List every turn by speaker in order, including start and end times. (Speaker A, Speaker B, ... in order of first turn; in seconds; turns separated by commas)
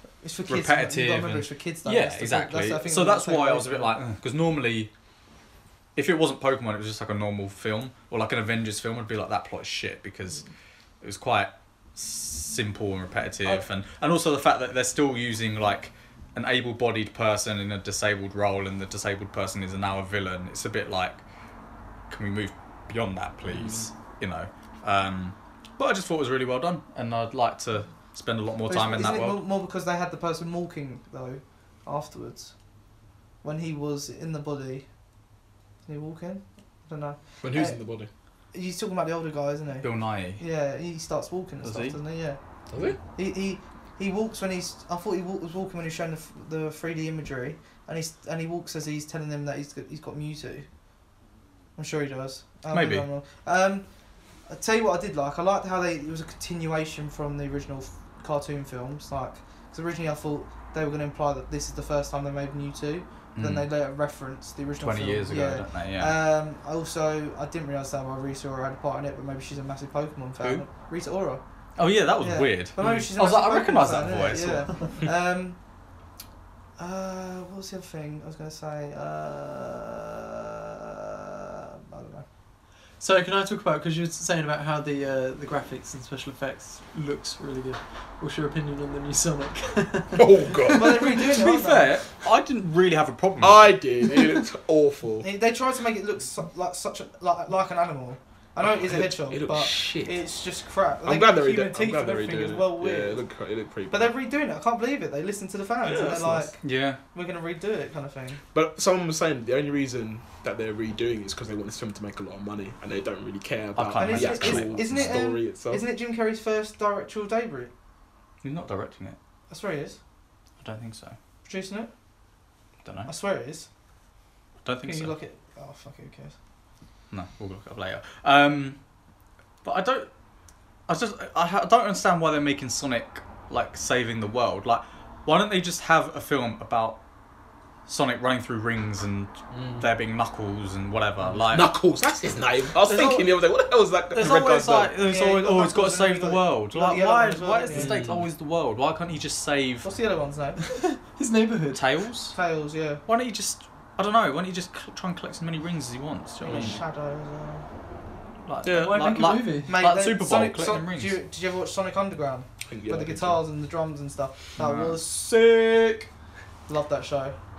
Speaker A: 0.2-4.0, Speaker B: 0.5-4.9, Speaker B: 6.0-10.4, Speaker B: 11.0-21.2, Speaker B: 22.1-29.4, Speaker C: 23.5-23.9, Speaker A: 28.7-32.5, Speaker A: 33.4-34.8, Speaker A: 35.9-37.8, Speaker C: 37.4-38.1, Speaker A: 38.5-42.4, Speaker B: 39.8-40.4, Speaker B: 41.6-42.0, Speaker C: 42.7-43.0, Speaker A: 43.1-50.7, Speaker A: 51.8-53.9, Speaker B: 52.7-53.1, Speaker A: 54.5-71.4, Speaker B: 63.3-63.7, Speaker B: 64.8-66.2, Speaker B: 71.8-74.9, Speaker A: 72.2-75.6, Speaker A: 76.8-82.2, Speaker D: 83.0-90.6, Speaker C: 90.1-91.2, Speaker A: 90.7-91.9, Speaker B: 91.1-93.8, Speaker C: 93.4-95.3, Speaker A: 95.2-103.2, Speaker C: 98.6-100.2, Speaker C: 101.0-104.1, Speaker A: 103.9-106.5, Speaker C: 105.8-106.5, Speaker B: 106.6-107.0, Speaker A: 107.1-108.4, Speaker C: 108.5-115.8, Speaker B: 113.7-115.2, Speaker A: 114.0-117.7, Speaker B: 118.4-119.2, Speaker A: 119.5-120.0, Speaker B: 120.6-121.2, Speaker A: 121.5-121.9, Speaker B: 122.8-123.1, Speaker A: 123.0-123.7, Speaker B: 124.6-125.1, Speaker A: 124.8-126.3, Speaker B: 127.1-128.8, Speaker B: 129.6-130.1, Speaker B: 130.9-137.0, Speaker B: 137.9-141.7, Speaker C: 139.5-139.8, Speaker C: 141.4-144.9, Speaker B: 142.8-143.3, Speaker B: 144.1-149.9, Speaker A: 145.0-148.0, Speaker C: 147.7-148.2, Speaker A: 149.8-150.6, Speaker D: 150.6-151.8, Speaker B: 151.7-152.3, Speaker A: 152.3-153.0, Speaker B: 153.1-156.8, Speaker A: 156.4-157.7, Speaker B: 158.4-161.2, Speaker C: 158.7-158.9, Speaker D: 158.7-159.8, Speaker A: 159.7-166.1, Speaker C: 162.7-163.4, Speaker B: 164.6-165.1, Speaker A: 166.7-167.3